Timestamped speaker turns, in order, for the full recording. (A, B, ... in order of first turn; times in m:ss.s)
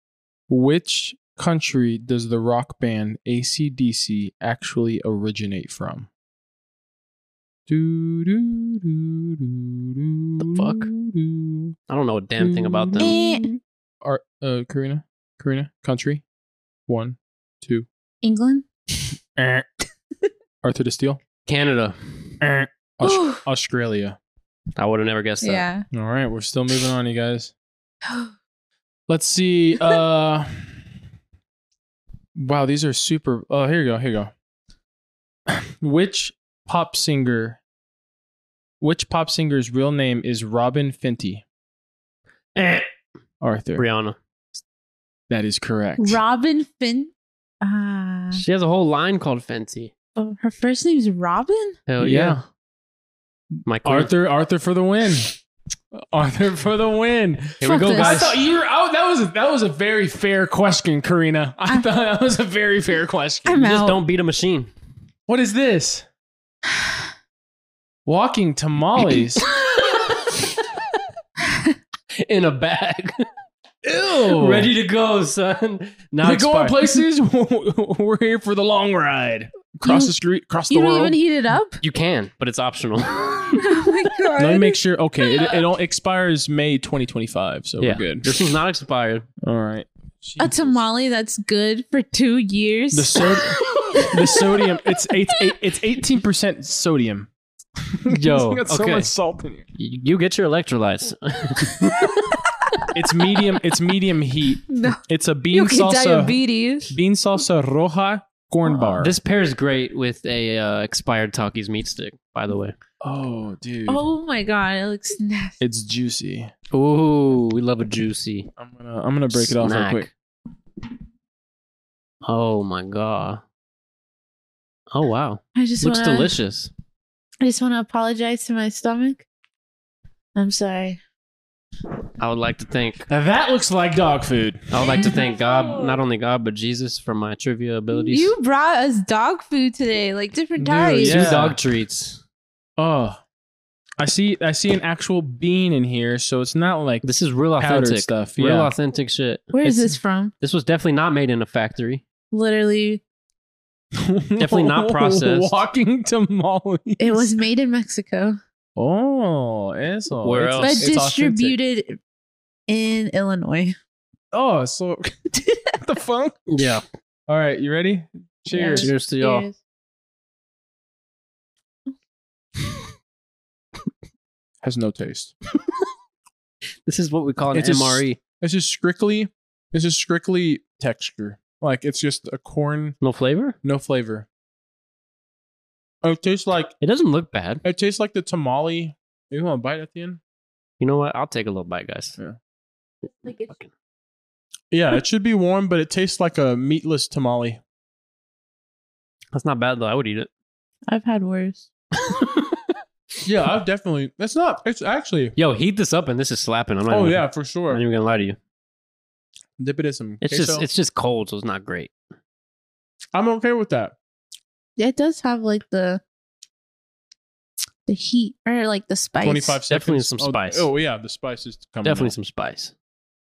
0:00.5-0:06.1 A
0:07.7-0:11.7 A
0:10.4-0:10.9 B
0:11.9-0:13.2 B
0:12.4-0:16.2 A
0:13.0-0:13.4 C
0:16.9-0:17.9 A
0:18.2-0:18.7 C
0:19.4-0:19.7 A
0:20.6-0:21.2 A
0:21.4-0:22.3 B
0:22.4-0:24.2 A
0:23.0-0:23.4 C
0:24.8-0:25.7 B
0:25.4-0:25.9 C
0:25.9-0:27.5 A
0:29.1-0:30.8 A
0:32.4-0:34.3 A
0:35.5-0:37.6 A
0:38.8-0:41.4 A
0:42.6-0:42.9 B
0:43.4-0:43.8 A
0:43.8-0:44.6 B
0:45.3-0:46.2 A
0:46.0-0:48.4 C
0:48.3-0:49.9 B
0:50.2-0:51.8 C
0:51.9-0:52.4 B
0:52.0-0:52.4 A
0:53.7-0:54.1 B
0:53.7-0:55.4 A
0:55.9-1:03.6 A
0:57.6-0:58.4 B
0:57.6-0:58.2 C
1:03.4-1:04.0 C
1:03.6-1:04.7 B
1:05.3-1:06.0 A
1:08.0-1:09.4 A
1:09.5-1:10.2 C
1:12.1-1:13.3 B
1:13.8-1:14.7 A
1:14.2-1:16.7 B
1:16.2-1:21.2 A
1:19.8-1:20.1 C
1:20.7-1:21.8 C
1:21.8-1:23.7 B
1:23.6-1:24.8 C
1:24.4-1:28.3 A
1:27.8-1:29.3 B
1:29.4-1:30.8 A
1:30.4-1:34.7 C
1:32.9-1:37.3 A
1:37.9-1:39.7 A
1:38.1-1:39.1 B
1:39.7-1:42.1 B
1:42.0-1:42.8 C
1:42.9-1:46.4 A
1:44.7-1:45.0 C
1:45.5-1:47.0 C
1:46.9-1:49.1 A
1:48.6-1:49.0 C
1:49.0-1:52.8 B
1:53.0-1:54.0 A
1:53.9-1:55.6 C
1:55.6-1:56.5 A
1:56.7-1:58.5 B
1:58.6-2:00.1 A
1:59.3-2:00.1 B
2:02.2-2:03.4 B
2:04.9-2:06.7 B
2:05.6-2:06.3 C
2:07.4-2:09.3 C
2:10.3-2:11.0 C
2:12.2-2:13.0 B
2:13.1-2:15.1 A
2:14.7-2:18.3 B
2:15.1-2:16.0 C
2:17.9-2:21.4 C
2:20.6-2:21.6 A
2:21.0-2:22.2 B
2:22.8-2:23.2 A
2:24.0-2:28.7 A
2:27.0-2:29.5 B
2:29.5-2:30.3 C
2:29.6-2:30.0 A
2:30.4-2:32.0 B
2:32.3-2:33.0 C
2:34.0-2:37.3 A
2:34.4-2:35.6 B
2:37.0-2:38.4 C
2:38.8-2:41.6 A
2:40.2-2:40.9 B
2:40.6-2:42.0 C
2:42.7-2:43.8 C
2:44.3-2:45.2 A
2:45.4-2:45.7 C
2:45.8-2:46.4 A
2:46.5-2:46.8 B
2:47.3-2:48.9 A
2:48.5-2:49.6 C
2:48.7-2:49.5 B
2:54.6-2:55.3 A
2:56.9-2:58.2 B
2:57.5-3:03.0 A
3:03.0-3:03.6 B
3:03.6-3:04.3 A
3:06.0-3:06.7 A
3:06.8-3:07.6 B
3:07.6-3:10.2 A
3:10.8-3:12.2 B
3:13.0-3:13.5 C
3:14.7-3:17.6 A
3:19.3-3:20.3 B
3:20.9-3:21.7 C
3:21.9-3:22.7 B
3:23.2-3:25.3 A
3:25.4-3:28.4 B
3:26.9-3:27.8 A
3:29.6-3:30.7 A
3:30.2-3:31.9 B
3:33.1-3:34.0 A
3:34.8-3:36.0 C
3:37.9-3:39.6 C
3:39.2-3:42.1 A
3:39.7-3:40.7 B
3:41.8-3:42.7 B